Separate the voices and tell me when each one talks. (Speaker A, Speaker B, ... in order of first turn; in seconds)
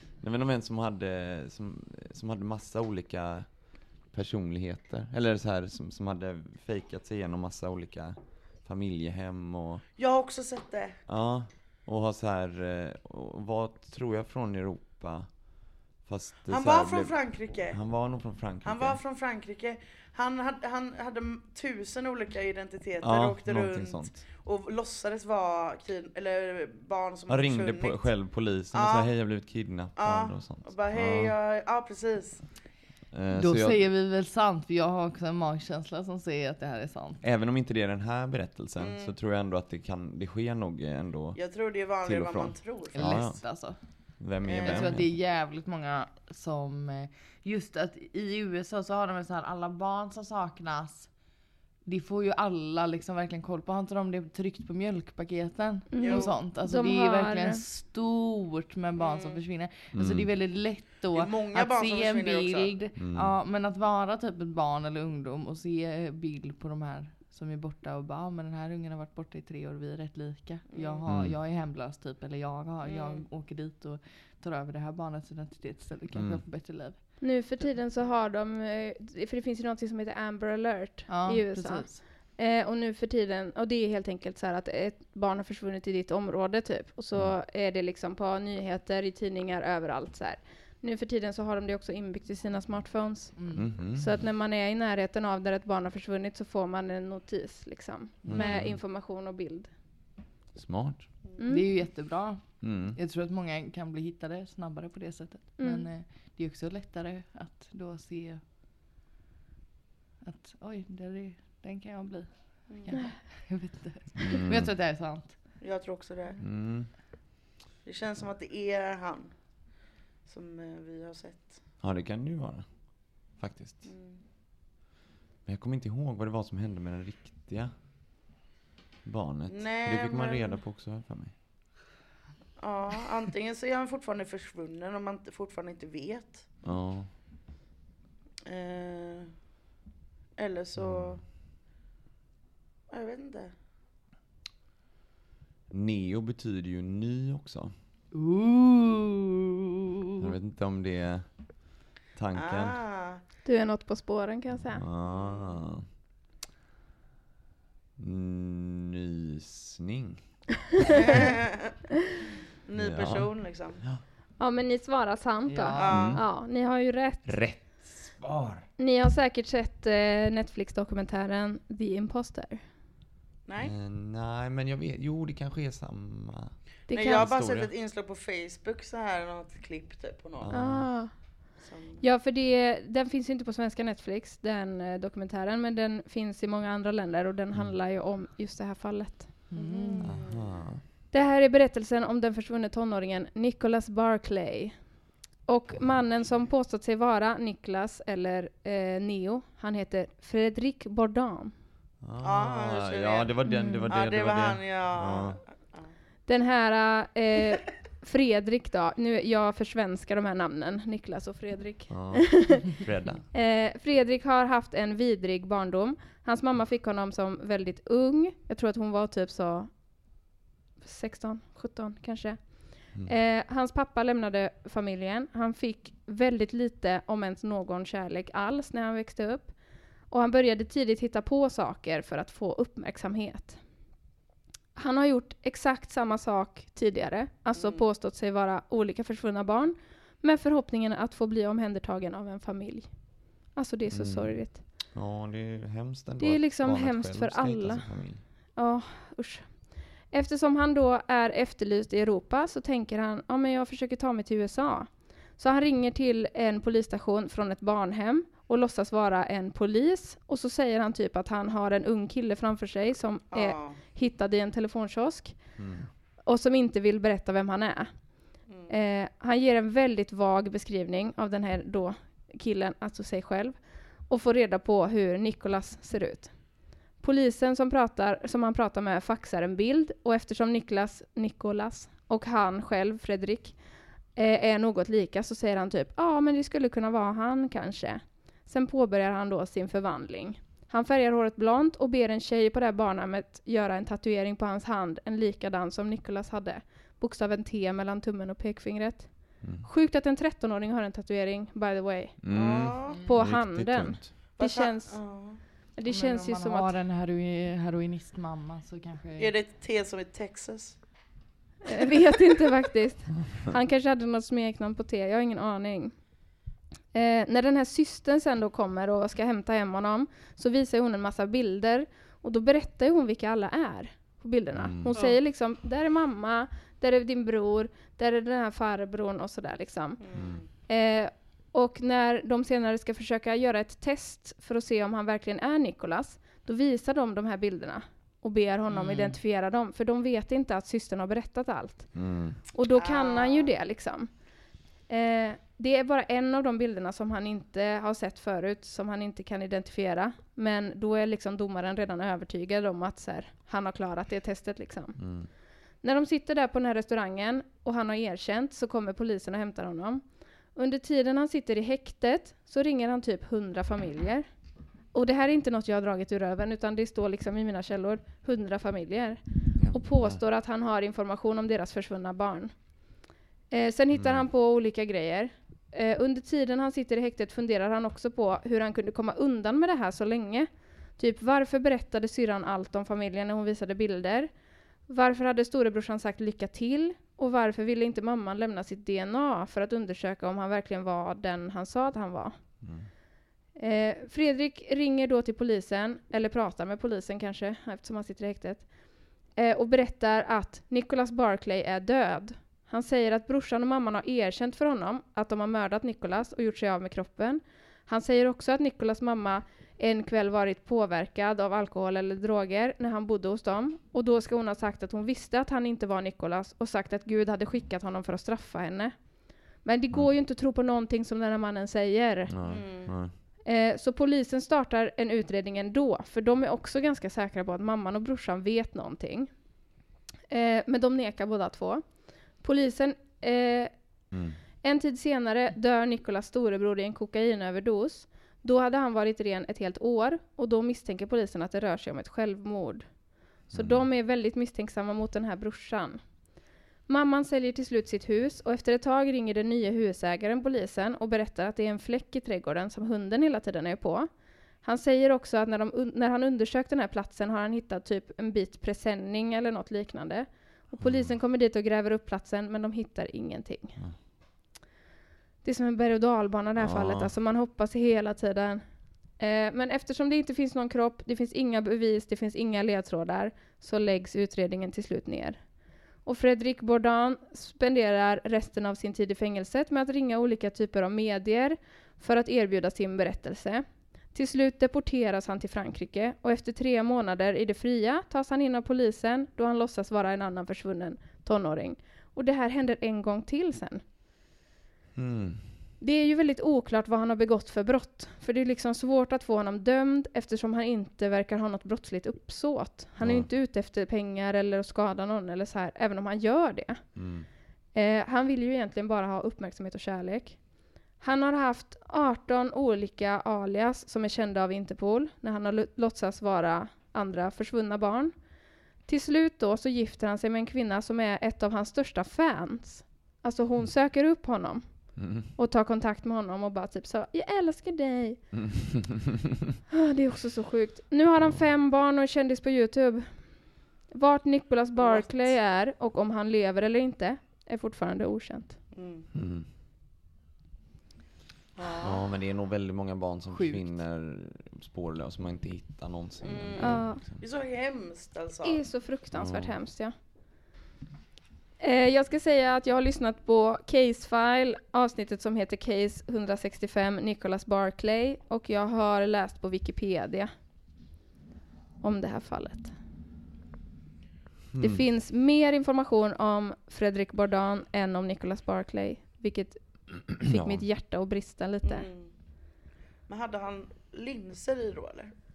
Speaker A: 0.2-9.8, 11.1-19.0, 23.0-24.2, 27.3-31.3, 33.1-33.9, 37.2-45.1, 59.9-60.3, 63.0-63.4, 71.1-71.4, 76.1-76.4, 93.5-94.2, 98.2-98.8, 100.5-101.2, 102.6-103.0, 114.3-114.7, 116.4-117.2, 121.8-123.9, 125.5-127.8, 129.0-131.4, 136.6-137.1, 140.8-141.2, 145.7-147.7, 150.2-152.8, 154.5-155.8, 158.0-160.4, 162.8-164.0, 165.9-166.3, 167.2-168.7, 173.6-177.7, 180.4-181.0, 190.0-190.8, 195.7-196.0, 202.0-205.4, 211.9-213.3, 243.9-248.2, 265.6-265.9, 299.4-299.7, 302.2-304.1, 324.5-324.9, 330.1-330.4, 341.9-342.4, 355.0-355.3, 369.6-370.2, 373.9-374.3, 392.6-392.9, 422.3-423.1, 434.1-434.4, 443.5-443.9, 460.8-461.1, 466.6-467.1, 494.9-495.6, 503.0-503.3, 506.9-507.3, 525.0-525.3, 528.4-528.9, 539.1-539.5, 541.8-547.2, 549.1-549.6, 564.5-564.8, 570.2-570.7
Speaker B: 10.0-11.0, 16.5-17.8, 18.6-29.4, 30.0-32.6, 38.8-39.1, 41.4-43.3, 44.5-44.9, 56.0-56.4, 59.0-59.4, 61.1-62.7, 70.7-71.0, 72.8-73.2, 115.6-116.4, 117.8-119.3, 120.3-121.6, 123.8-124.2, 129.5-130.6, 132.6-136.5, 138.5-139.3, 140.4-141.2, 142.9-143.5, 152.3-153.2, 155.1-155.6, 160.9-161.7, 162.7-163.8, 165.8-166.2, 173.5-173.7, 176.9-180.5, 181.6-182.0, 189.6-190.5, 202.2-203.3, 203.9-205.9, 237.6-237.8, 263.3-263.8, 302.3-303.0, 304.4-305.4, 309.2-310.8, 330.0-330.5, 342.7-343.5, 422.5-423.0, 534.8-535.4, 538.7-539.1, 541.6-542.0, 546.2-548.6, 571.6-572.1, 573.1-575.1
Speaker C: 33.4-37.2, 42.9-51.1, 51.9-77.7, 81.1-82.0, 93.4-93.7, 101.5-108.4, 110.2-115.5, 148.1-149.4, 165.5-166.0, 189.5-190.1, 302.9-303.2, 305.9-309.3, 324.9-325.2, 338.7-339.2, 543.3-543.7
Speaker D: 55.9-57.6, 77.2-99.7, 101.4-101.7, 105.6-105.9, 153.4-154.8, 164.4-167.3, 168.8-172.6, 176.9-177.3, 180.5-181.4, 182.0-189.3, 191.1-194.9, 195.4-201.5, 203.5-203.9, 206.3-212.7, 213.3-219.7, 220.8-229.5, 230.1-233.6, 234.8-244.6, 246.2-265.4, 266.2-268.0, 268.7-276.3, 277.0-283.6, 284.1-306.8, 311.7-316.2, 316.9-330.0, 330.7-342.0, 342.5-344.1, 344.9-355.0, 355.8-364.3, 364.9-372.7, 373.5-384.3, 384.9-392.4, 393.6-419.0, 419.6-422.9, 423.5-429.3, 430.3-433.7, 434.6-446.0, 446.9-454.1, 454.6-463.8, 465.4-468.6, 469.2-475.4, 476.0-493.8, 495.8-506.9, 507.8-510.4, 511.0-518.1, 518.9-528.3, 529.7-538.6, 546.6-547.0, 548.4-549.9, 551.6-560.3, 561.8-562.7, 564.6-571.9